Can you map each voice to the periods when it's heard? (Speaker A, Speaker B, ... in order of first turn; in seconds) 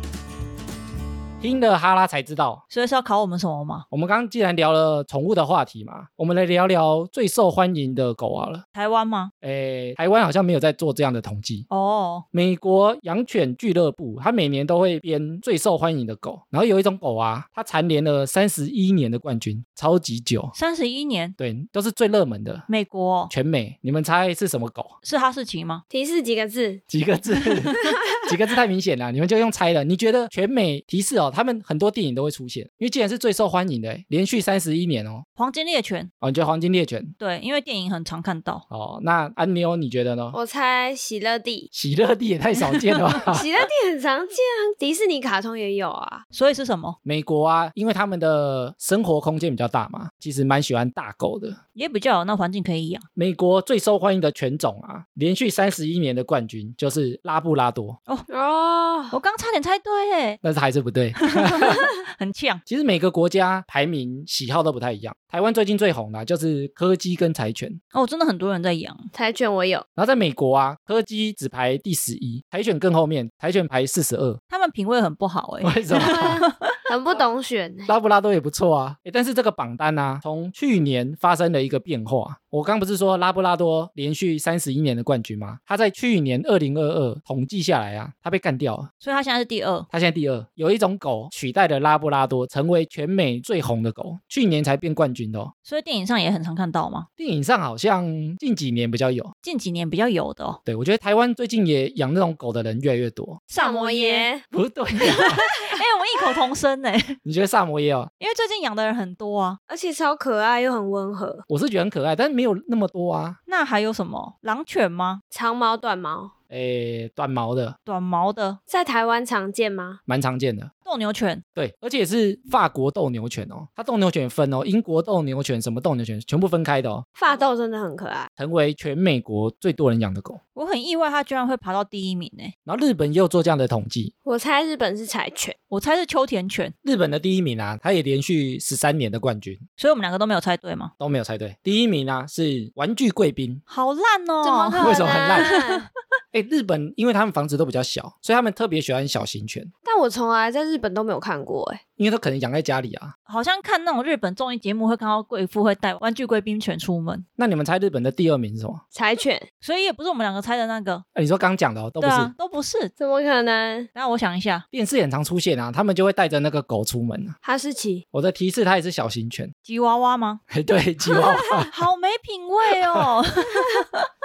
Speaker A: 1.4-2.6, 3.9-8.6, 9.4-11.7, 12.3-20.5, 21.4-22.7, 23.3-24.9, 26.9-35.2, 36.2-37.1, 38.7-40.4, 41.7-43.5, 47.0-51.6, 53.2-58.0, 60.4-61.9, 62.7-67.8, 70.0-74.4, 75.6-76.4, 77.9-88.9, 89.9-95.5, 97.2-99.3, 100.7-103.4, 104.5-105.5, 107.2-108.1, 111.5-113.4, 116.5-117.8, 120.1-120.7, 121.5-127.1, 128.4-130.4, 132.7-134.1, 136.8-139.6, 141.0-143.6, 144.8-145.5, 146.3-149.7, 152.0-153.1, 157.4-158.8, 161.2-162.3, 164.7-167.4, 168.1-169.5, 170.5-171.7, 172.7-173.1
Speaker B: 2.7-3.9, 8.8-9.3, 11.7-12.2, 20.6-21.4, 22.7-23.3, 25.0-25.8, 35.4-36.1, 37.2-38.6, 46.3-47.0, 51.8-53.0, 59.1-60.4, 61.2-62.6, 67.9-69.1, 74.5-76.7, 89.0-89.9, 95.7-97.1, 99.4-100.6, 103.5-104.3, 105.1-107.2, 108.2-109.6, 113.5-115.2, 117.9-118.6, 120.9-121.4, 130.6-132.5, 135.7-136.7, 139.8-140.9, 143.7-145.9, 153.3-157.3, 159.6-161.1, 162.0-162.9, 163.9-164.7, 169.7-170.4, 171.4-174.1
Speaker C: 25.9-26.8, 40.3-41.7, 43.3-46.2, 58.3-59.2, 69.1-69.8, 75.9-77.9, 103.6-104.5, 105.3-105.8, 109.7-111.5, 115.3-116.3, 118.7-120.0, 127.2-128.3, 134.2-135.6, 144.4-145.9, 149.8-151.8, 158.9-159.5, 163.0-163.9, 167.4-168.1